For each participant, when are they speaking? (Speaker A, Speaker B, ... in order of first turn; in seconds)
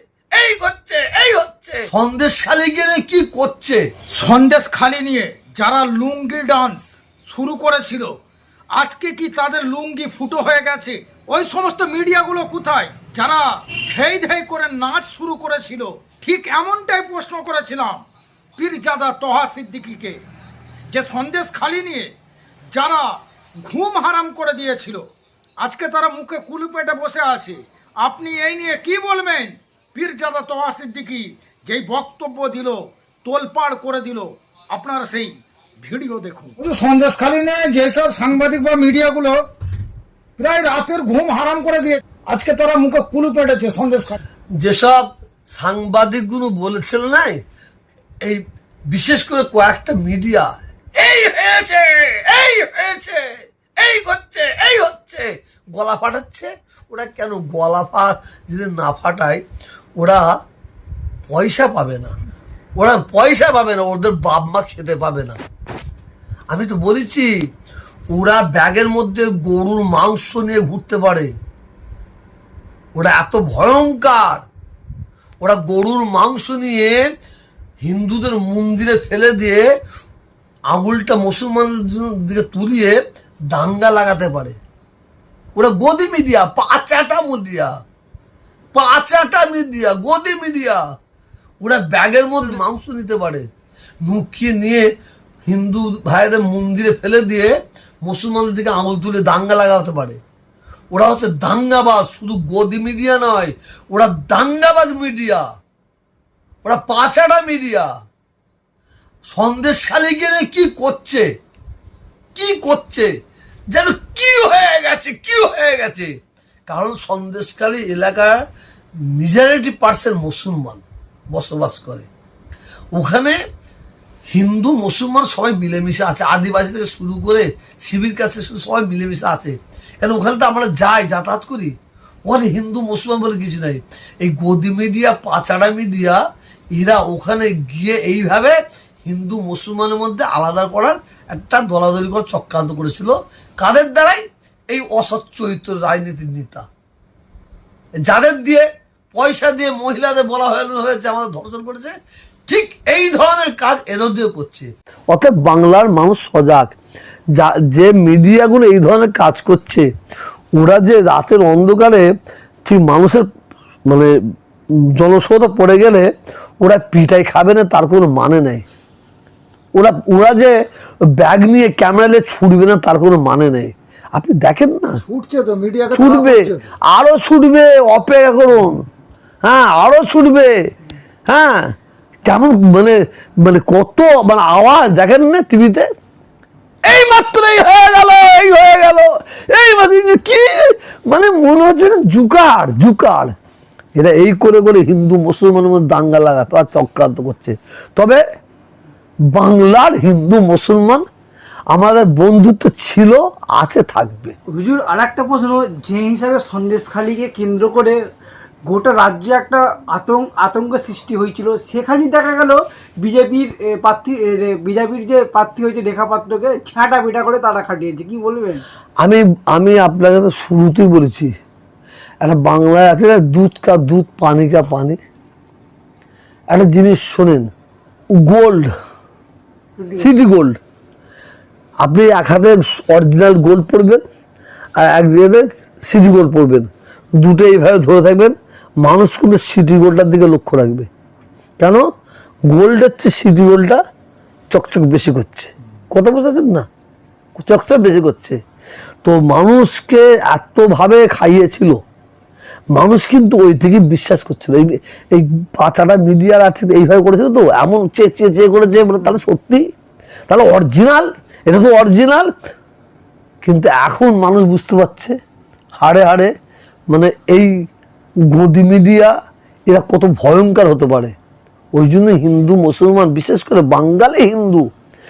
Speaker A: 0.3-1.6, 51.0-53.1, 53.8-54.4
Speaker B: 0.9-1.7, 4.1-8.2, 8.8-18.1, 18.6-20.2, 20.9-22.1, 22.7-25.1, 25.6-39.5, 40.4-44.2, 175.1-176.6
Speaker C: 1.9-3.9, 44.6-47.4, 48.2-50.5, 54.5-59.4, 60.0-60.4, 61.3-62.1, 62.8-65.4, 66.5-67.3, 68.1-71.3, 73.0-74.4, 75.4-77.0, 77.8-79.7, 80.7-83.0, 83.5-84.6, 85.6-87.7, 88.8-90.8, 91.6-93.5, 94.0-94.9, 95.5-100.2, 100.9-105.4, 106.6-107.9, 109.3-111.3, 112.3-113.1, 113.7-116.1, 116.7-118.5, 119.0-122.1, 122.9-123.4, 124.3-131.8, 132.3-136.2, 136.7-146.7, 148.0-151.9, 152.5-156.8, 157.3-159.9, 160.6-162.1, 162.7-163.3, 163.9-164.1, 164.7-166.1, 166.6-168.6, 169.8-175.0, 175.9-178.8, 179.4-180.6, 181.3-181.7, 182.2-185.9, 186.8-193.3, 193.9-198.2, 199.3-201.1, 201.7-204.4, 219.0-221.3, 222.2-225.0, 226.5-227.5, 228.2-228.7, 229.9-230.6, 231.8-234.0, 234.8-240.9, 241.6-241.9, 242.5-243.8, 244.5-246.7, 247.4-248.4, 249.0-251.8, 252.7-259.7, 260.3-262.3, 263.4-265.2, 265.8-266.3, 266.9-267.6, 268.3-269.1, 269.7-271.1, 271.7-274.7
Speaker D: 204.5-208.0, 208.7-218.6, 229.8-230.1